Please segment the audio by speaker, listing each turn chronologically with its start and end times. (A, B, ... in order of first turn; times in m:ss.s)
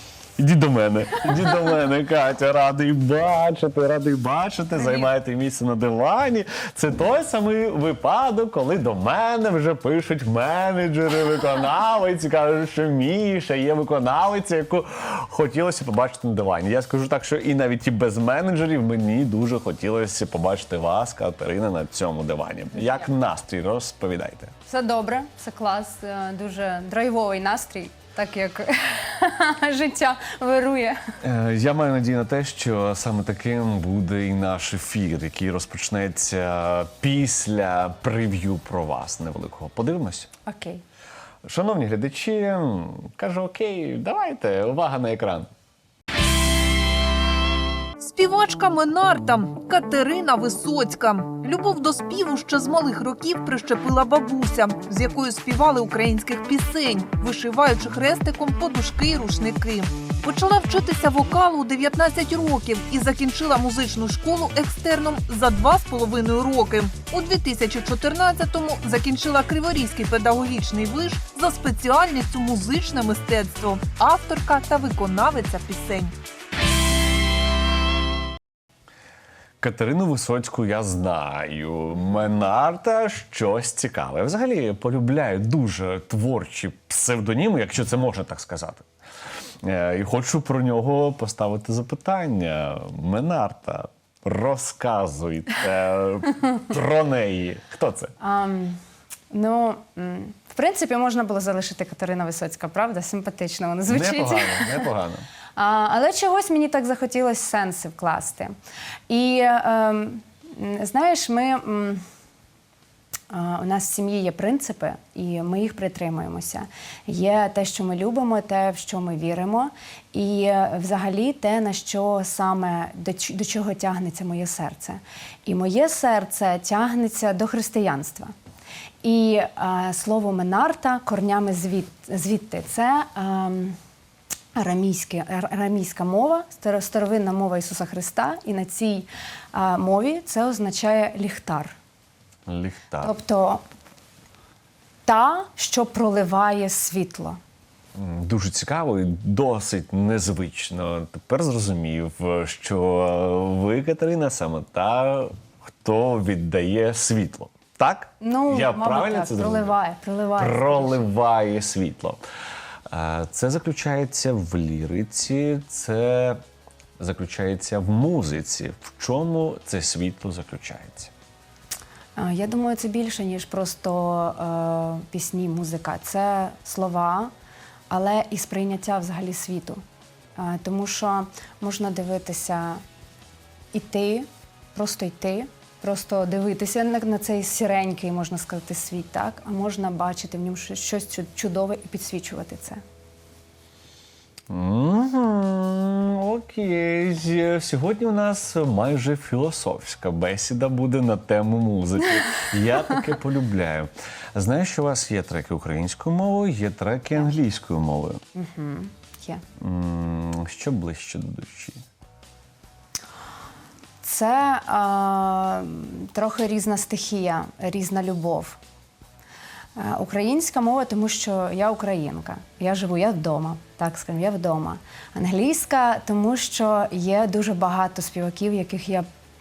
0:00.4-0:24.5 A
0:24.7-0:31.0 B
0:31.2-0:40.3 A
0:40.4-0:40.8 B
0:41.4-0:45.5 A
0:48.0-1:16.1 C
1:19.6-1:28.8 A
1:29.6-1:38.1 A
1:38.2-1:38.8 B
1:39.3-1:44.9 B
1:43.9-1:45.2 A
1:45.6-1:48.5 B
1:49.1-1:52.0 B
1:53.3-2:08.3 B
2:09.0-2:13.8 B
2:14.5-2:21.8 B
2:22.4-2:23.1 A
2:23.0-2:23.6 B
2:25.0-2:27.4 B
2:27.9-2:39.7 A
2:38.2-2:41.1 B
2:40.4-2:42.2 A
2:42.9-2:46.4 A
2:47.0-2:51.1 A
2:52.2-2:57.3 B
2:57.9-2:59.8 B
3:00.4-3:02.8 B
3:03.7-3:12.8 B
3:14.5-3:28.2 A
3:28.3-3:29.4 B
3:29.6-3:31.8 A
3:34.0-3:38.6 B
3:39.8-3:49.0 B